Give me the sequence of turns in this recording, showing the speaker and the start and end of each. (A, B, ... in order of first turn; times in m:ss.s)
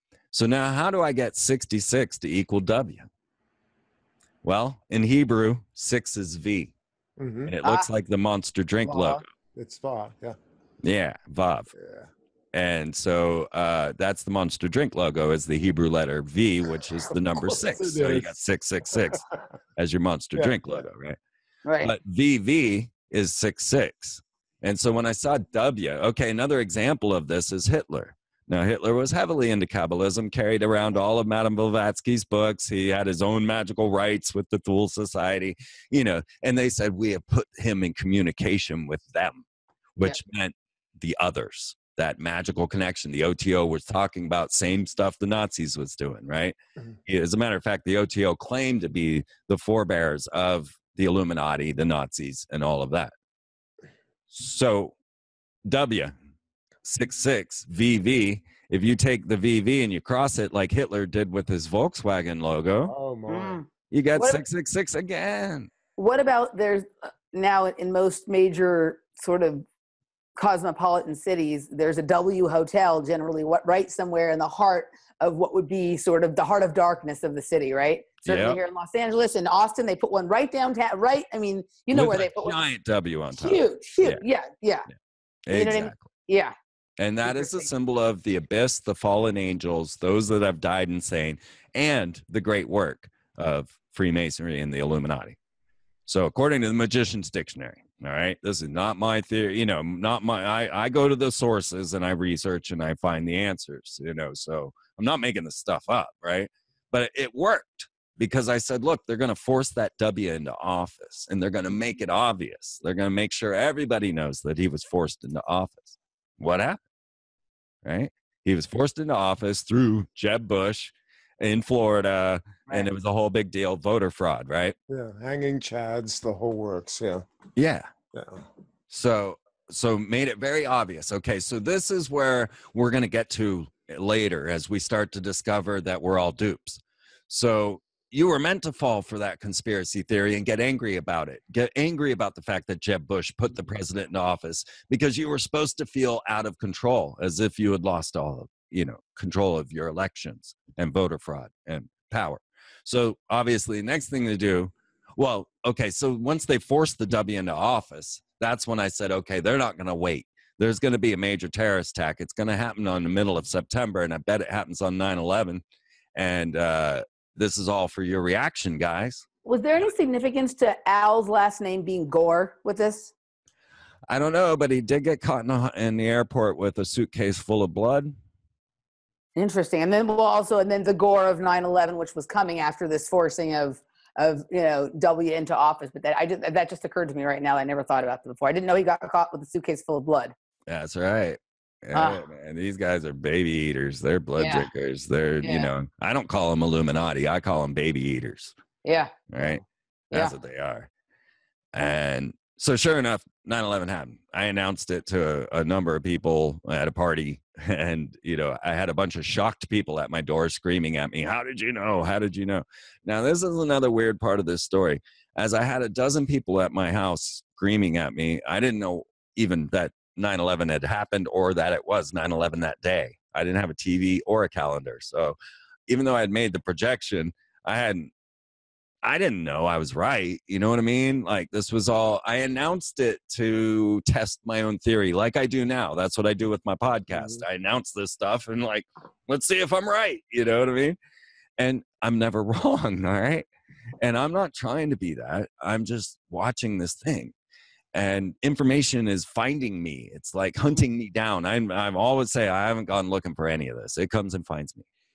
0:00.3-0:03.0 A
0:04.4-0:06.7 A
0:07.2-0:07.5 B
0:07.5-0:09.2 A
0:08.8-0:10.4 B
0:10.8-0:11.7 A
0:11.7-0:12.1 B
0:12.5-0:19.2 A
0:17.5-0:18.3 B
0:19.8-0:21.2 A
0:20.3-0:20.8 B
0:21.6-0:21.9 C
0:21.8-0:39.4 A
0:40.0-0:53.1 A
0:54.3-0:54.9 A
0:55.6-0:56.1 A
0:56.8-1:02.9 A
1:02.8-1:03.6 B
1:03.3-1:04.4 C
1:03.9-1:05.7 A
1:06.0-1:09.6 C
1:10.4-1:22.6 C
1:18.2-1:18.6 A
1:21.9-1:24.2 A
1:23.3-1:24.8 C
1:25.5-1:26.0 A
1:25.5-1:26.5 C
1:27.0-1:35.4 A
1:27.2-1:27.7 C
1:36.1-1:56.8 A
1:57.8-2:04.8 A
2:04.9-2:07.2 B
2:07.6-2:07.9 A
2:08.1-2:08.4 B
2:08.9-2:45.6 A
2:46.1-2:49.2 A
2:49.4-2:53.1 C
2:54.1-2:58.1 A
2:59.4-3:10.3 C
3:10.7-3:18.5 A
3:11.9-3:12.2 C
3:14.4-3:14.7 C
3:15.4-3:15.7 C
3:18.8-3:20.3 C
3:19.3-3:20.9 A
3:21.7-3:45.4 A
3:45.9-3:48.1 A
3:49.0-4:01.0 A
3:57.1-3:57.4 B
4:01.6-4:03.5 A
4:04.0-4:07.3 A
4:07.9-4:14.8 A